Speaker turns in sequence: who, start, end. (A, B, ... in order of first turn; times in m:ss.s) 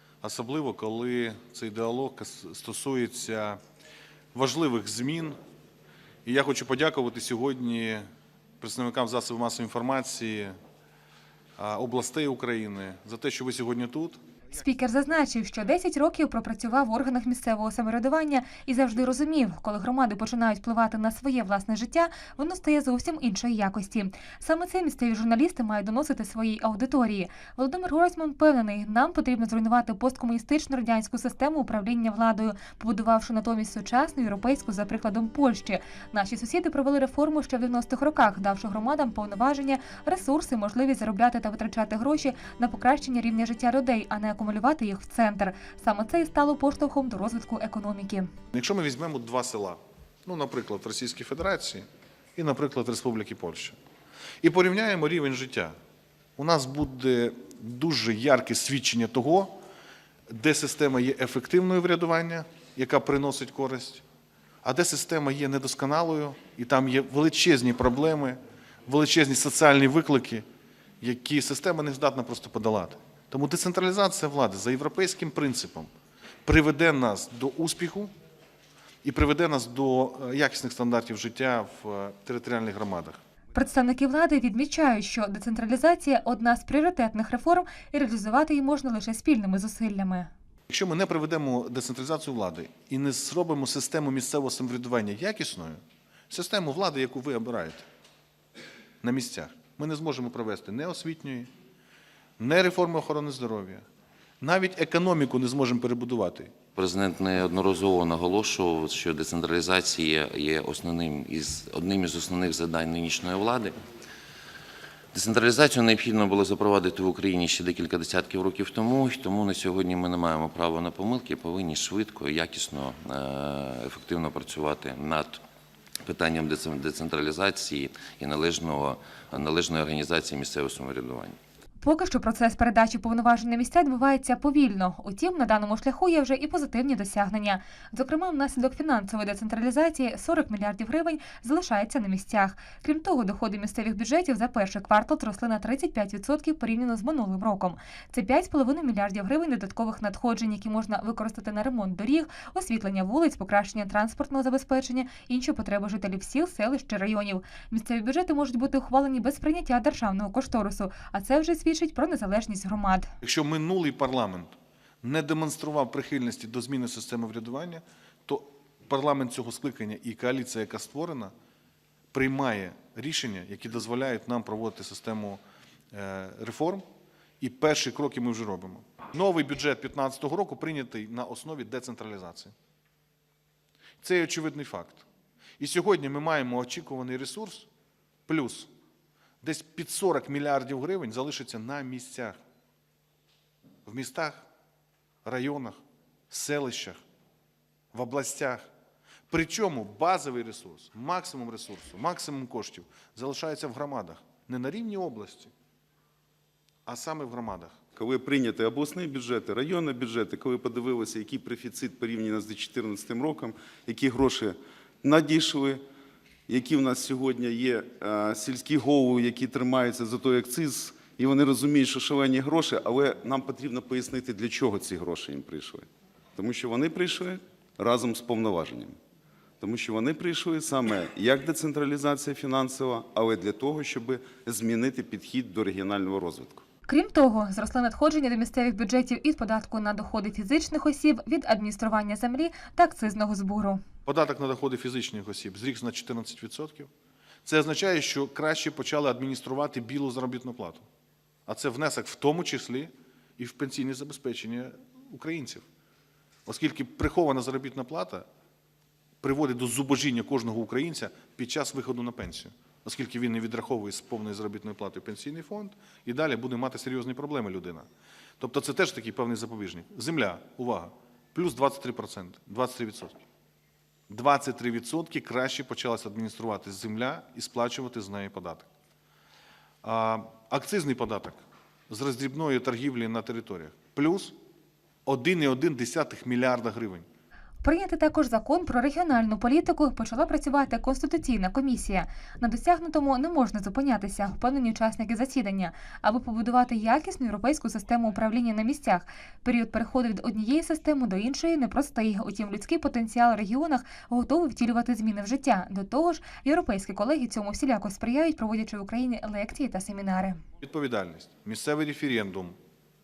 0:00.2-0:03.6 A
0:04.3-0:05.4 A
0:06.2-0:08.0 A
0:08.6-0:10.5 A
0:11.6-0:14.2 A
0:14.5-0:48.3 B
0:48.5-0:53.8 A
0:54.4-0:55.7 A
0:56.4-0:59.5 A
1:00.3-1:04.0 A
1:04.6-1:10.4 A
1:11.0-1:15.9 A
1:16.4-1:18.1 A
1:19.0-1:23.2 A
1:23.5-1:30.3 B
1:30.7-1:37.8 A
1:39.0-1:41.5 A
1:42.4-1:43.8 A
1:44.4-1:46.6 A
1:46.7-1:53.8 C
1:55.1-2:05.4 C
2:06.0-2:11.4 C
2:11.8-2:43.1 B
2:43.2-2:51.3 A
2:52.1-2:55.4 A
2:55.9-2:56.8 A
2:57.4-3:02.5 A
3:04.0-3:05.0 A
3:05.6-3:07.7 A
3:08.3-3:08.7 A
3:09.4-3:12.4 A
3:13.8-3:14.5 A
3:15.2-3:15.8 A
3:16.3-3:17.0 A
3:17.9-3:18.7 A
3:19.3-3:25.5 A
3:26.8-3:27.8 A
3:28.0-3:35.8 D
3:36.5-3:49.0 D
3:49.6-3:56.6 D
3:56.9-4:03.8 B
4:04.0-4:06.9 A
4:07.4-4:10.8 A
4:11.5-4:15.6 A
4:16.5-4:18.2 A
4:19.2-4:27.9 A
4:28.4-4:33.2 A
4:34.1-4:38.7 A
4:39.8-4:44.4 A
4:45.0-4:47.0 A
4:47.6-5:10.4 B
5:10.6-5:12.5 A